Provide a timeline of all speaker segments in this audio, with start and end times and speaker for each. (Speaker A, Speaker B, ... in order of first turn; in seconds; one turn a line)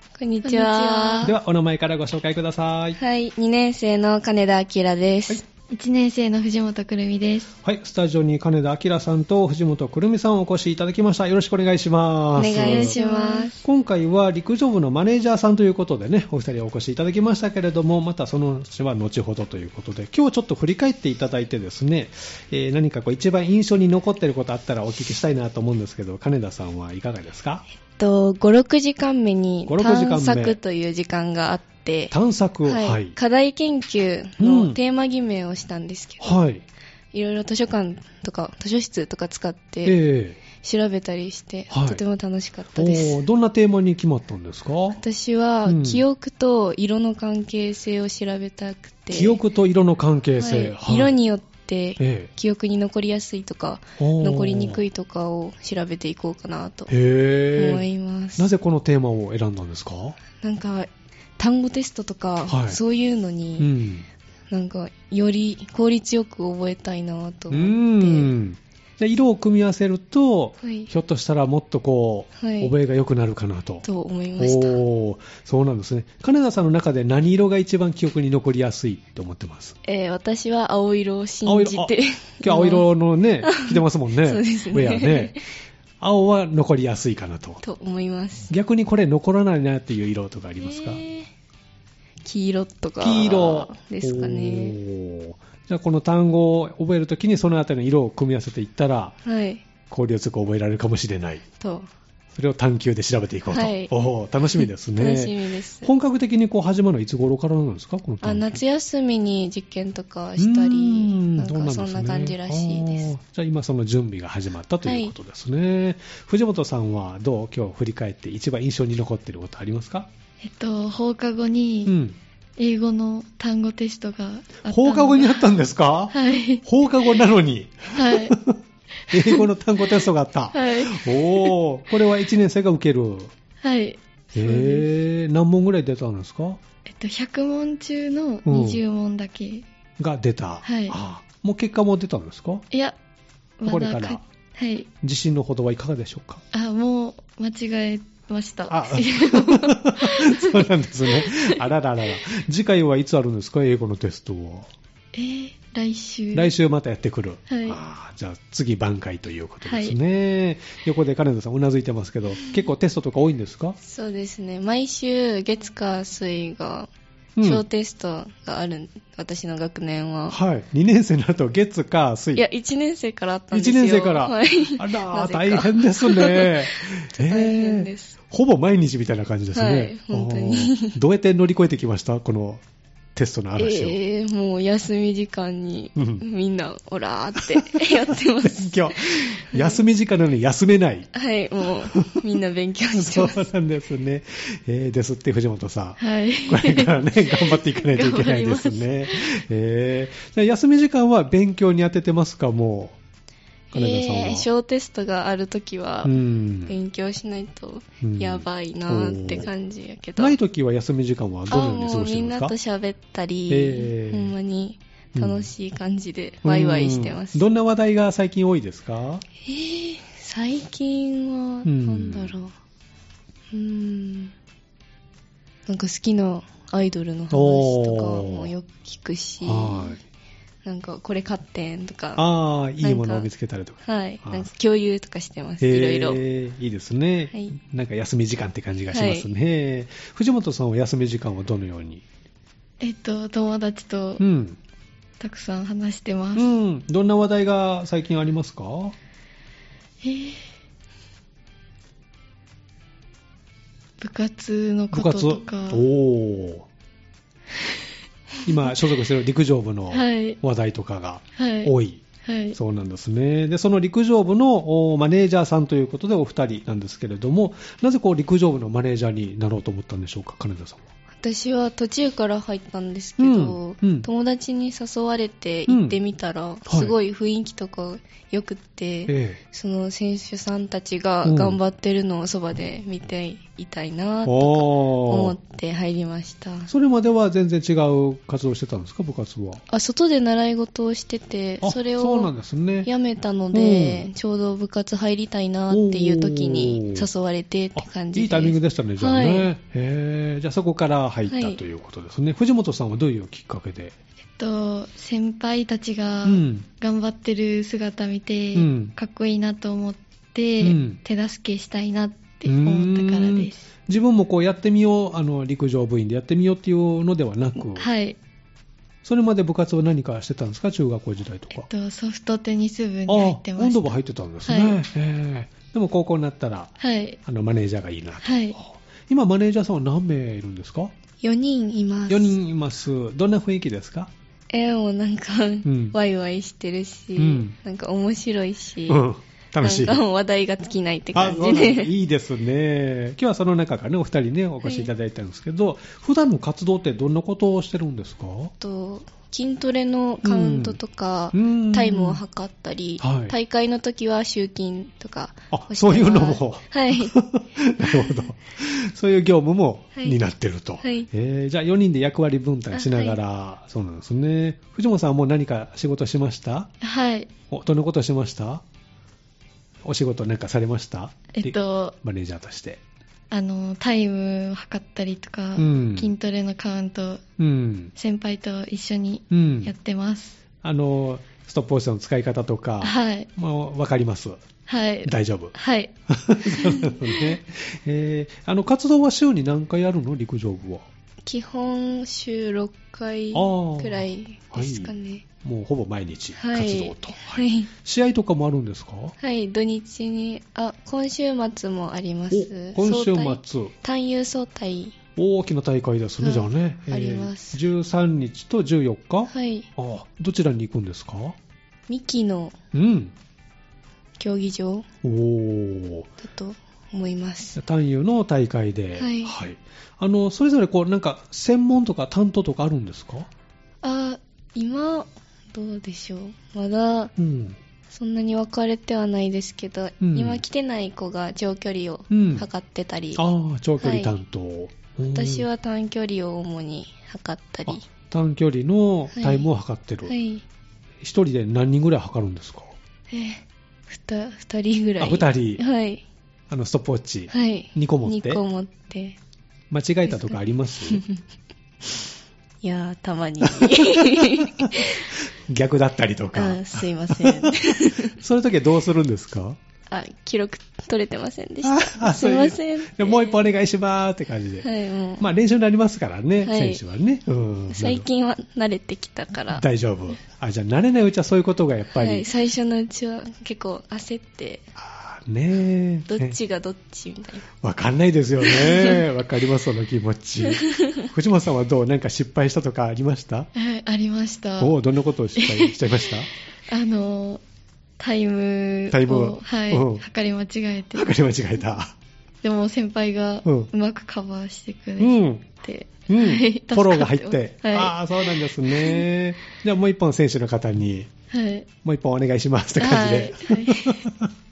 Speaker A: 0.2-1.3
Speaker B: 0.4-1.3
Speaker C: 1.2-3.0
Speaker A: 3.0-5.4
Speaker B: 5.7-7.5
Speaker C: 7.6-13.0
Speaker A: 12.4-13.6
Speaker B: 12.4-13.6
Speaker C: 13.6-27.6
Speaker A: 28.0-32.1
Speaker C: 29.7-30.6
Speaker C: 32.1-33.1
Speaker A: 32.7-36.4
Speaker C: 34.4-34.8
Speaker C: 36.2-36.6
Speaker A: 37.1-40.0
Speaker C: 39.9-40.4
Speaker A: 40.5-43.2
Speaker C: 41.7-42.0
Speaker C: 42.8-45.0
Speaker A: 44.9-49.4
Speaker C: 45.7-46.0
Speaker C: 49.1-51.1
Speaker A: 50.4-56.9
Speaker C: 52.0-52.3
Speaker C: 54.0-54.8
Speaker C: 56.9-57.9
Speaker A: 57.5-58.5
Speaker C: 58.4-60.2
Speaker A: 60.4-63.7
Speaker C: 62.5-62.8
Speaker C: 63.6-64.1
Speaker A: 64.5-68.3
Speaker C: 67.5-73.8
Speaker A: 70.6-70.9
Speaker A: 72.4-72.7
Speaker A: 73.8-74.8
Speaker C: 74.4-79.8
Speaker A: 79.8-82.9
Speaker C: 81.5-85.3
Speaker A: 83.4-85.4
Speaker C: 86.0-87.6
Speaker A: 87.6-88.5
Speaker C: 88.5-91.0
Speaker A: 90.6-91.3
Speaker A: 92.2-94.8
Speaker C: 93.0-99.2
Speaker A: 99.2-99.6
Speaker C: 99.9-101.4
Speaker A: 101.6-101.9
Speaker C: 102.3-108.6
Speaker A: 103.5-103.9
Speaker A: 104.6-105.9
Speaker A: 108.2-113.1
Speaker C: 110.4-120.1
Speaker A: 114.8-115.1
Speaker B: 120.4-122.0
Speaker C: 121.9-122.2
Speaker B: 122.6-125.5
Speaker C: 124.7-133.3
Speaker B: 126.1-126.6
Speaker B: 128.0-128.4
Speaker B: 130.5-131.3
Speaker B: 133.6-134.9
Speaker C: 134.3-136.6
Speaker B: 136.9-139.7
Speaker C: 138.5-138.8
Speaker C: 140.0-142.7
Speaker B: 140.6-141.0
Speaker B: 142.7-143.0
Speaker B: 143.6-144.9
Speaker C: 143.7-144.2
Speaker C: 145.0-146.4
Speaker B: 146.5-151.3
Speaker C: 148.7-154.7
Speaker B: 155.1-156.5
Speaker C: 156.3-163.8
Speaker B: 157.5-157.8
Speaker B: 159.6-160.0
Speaker A: 163.8-166.9
Speaker C: 167.4-167.6
Speaker A: 167.4-170.4
Speaker C: 170.3-172.4
Speaker A: 172.3-178.2
Speaker C: 173.5-182.6
Speaker A: 179.6-181.0
Speaker C: 183.2-184.0
Speaker A: 183.6-189.8
Speaker C: 186.0-186.2
Speaker C: 188.4-191.1
Speaker A: 191.1-193.4
Speaker C: 192.9-203.0
Speaker B: 196.0-199.1
Speaker A: 203.7-206.2
Speaker C: 203.7-204.5
Speaker C: 206.1-206.8
Speaker A: 206.7-210.4
Speaker C: 208.0-209.5
Speaker C: 210.2-212.5
Speaker A: 211.5-217.5
Speaker C: 213.5-214.3
Speaker C: 215.2-215.5
Speaker C: 216.4-219.2
Speaker A: 219.4-222.5
Speaker C: 221.7-222.4
Speaker A: 223.5-224.3
Speaker A: 225.7-230.0
Speaker C: 227.3-228.5
Speaker C: 229.4-230.0
Speaker A: 230.7-232.3
Speaker C: 232.2-234.5
Speaker A: 232.8-233.3
Speaker A: 233.8-236.2
Speaker C: 235.6-242.0
Speaker A: 238.9-239.3
Speaker B: 242.8-244.2
Speaker C: 244.2-244.6
Speaker B: 245.2-246.5
Speaker C: 246.3-248.9
Speaker B: 250.0-250.4
Speaker B: 254.0-255.8
Speaker C: 254.9-256.7
Speaker C: 258.4-262.0
Speaker B: 259.9-260.4
Speaker B: 261.4-261.7
Speaker B: 262.2-262.6
Speaker C: 262.5-270.8
Speaker A: 271.2-286.7
Speaker C: 273.2-274.1
Speaker C: 275.7-276.0
Speaker C: 276.7-276.9
Speaker C: 279.1-279.4
Speaker C: 281.2-281.6
Speaker C: 284.2-285.4
Speaker C: 286.7-289.6
Speaker A: 289.7-292.3
Speaker C: 291.6-292.9
Speaker A: 292.9-299.5
Speaker C: 293.5-294.0
Speaker C: 295.7-297.1
Speaker C: 297.8-304.0
Speaker A: 301.3-301.6
Speaker B: 304.4-313.6
Speaker C: 306.2-306.7
Speaker C: 308.6-308.9
Speaker C: 310.6-311.0
Speaker C: 312.4-317.9
Speaker B: 317.7-318.2
Speaker C: 319.0-321.7
Speaker B: 321.6-324.8
Speaker C: 323.1-326.7
Speaker B: 326.8-327.2
Speaker C: 327.2-330.9
Speaker B: 328.2-328.6
Speaker A: 331.2-332.4
Speaker C: 332.1-334.1
Speaker A: 334.5-339.0
Speaker C: 335.6-335.9
Speaker C: 337.2-337.6
Speaker C: 338.9-340.0
Speaker A: 339.6-341.9
Speaker C: 341.1-348.5
Speaker A: 344.6-344.9
Speaker A: 348.6-357.1
Speaker C: 350.2-350.8
Speaker C: 351.3-352.2
Speaker C: 353.0-353.3
Speaker C: 355.5-366.7
Speaker A: 357.8-358.2
Speaker A: 360.8-361.1
Speaker A: 362.7-363.2
Speaker B: 366.8-367.3
Speaker C: 367.5-368.6
Speaker C: 369.9-372.8
Speaker B: 371.3-372.0
Speaker B: 373.3-377.2
Speaker C: 375.6-376.1
Speaker C: 377.4-377.9
Speaker B: 378.0-380.4
Speaker C: 379.3-379.7
Speaker C: 380.6-384.4
Speaker B: 382.8-383.3
Speaker B: 384.7-385.9
Speaker C: 385.1-385.5
Speaker C: 386.1-390.9
Speaker A: 391.3-395.2
Speaker C: 393.3-399.2
Speaker A: 396.4-397.7
Speaker A: 399.2-405.0
Speaker C: 402.3-403.7
Speaker C: 405.2-411.4
Speaker A: 406.2-407.6
Speaker A: 409.3-409.7
Speaker A: 411.9-412.6
Speaker C: 412.7-413.1
Speaker A: 414.2-414.9
Speaker C: 415.0-416.1
Speaker A: 416.2-417.6
Speaker C: 417.6-423.3
Speaker A: 419.0-419.4
Speaker A: 423.8-427.1
Speaker C: 427.2-427.6
Speaker A: 427.9-433.2
Speaker C: 430.0-430.4
Speaker C: 432.1-432.5
Speaker C: 433.2-435.5
Speaker A: 433.8-434.1
Speaker A: 435.1-437.8
Speaker C: 437.7-440.1
Speaker A: 439.1-439.5
Speaker A: 440.1-440.4
Speaker C: 441.0-442.7
Speaker A: 443.1-446.0
Speaker C: 445.0-445.6
Speaker C: 446.5-448.4
Speaker A: 447.3-449.2
Speaker C: 449.7-451.0
Speaker A: 450.1-450.4
Speaker A: 450.9-451.2
Speaker A: 452.6-455.1
Speaker C: 453.6-459.6
Speaker A: 456.3-458.2
Speaker A: 459.9-463.5
Speaker C: 461.6-464.7
Speaker A: 464.6-465.3
Speaker C: 465.2-468.1
Speaker A: 466.4-466.8
Speaker A: 467.7-469.6
Speaker C: 469.5-472.3
Speaker A: 472.0-474.6
Speaker C: 474.8-476.4
Speaker A: 476.1-477.4
Speaker C: 477.6-483.5
Speaker A: 478.4-479.0
Speaker A: 480.5-481.0
Speaker B: 483.6-484.8
Speaker C: 484.6-486.3
Speaker B: 485.4-486.1
Speaker B: 486.7-487.4
Speaker B: 488.0-491.1
Speaker C: 488.9-490.0
Speaker C: 490.9-492.0
Speaker B: 492.4-499.0
Speaker C: 493.4-493.7
Speaker C: 495.0-495.5
Speaker C: 496.1-501.1
Speaker B: 501.3-501.7
Speaker C: 501.8-504.3
Speaker B: 502.8-504.0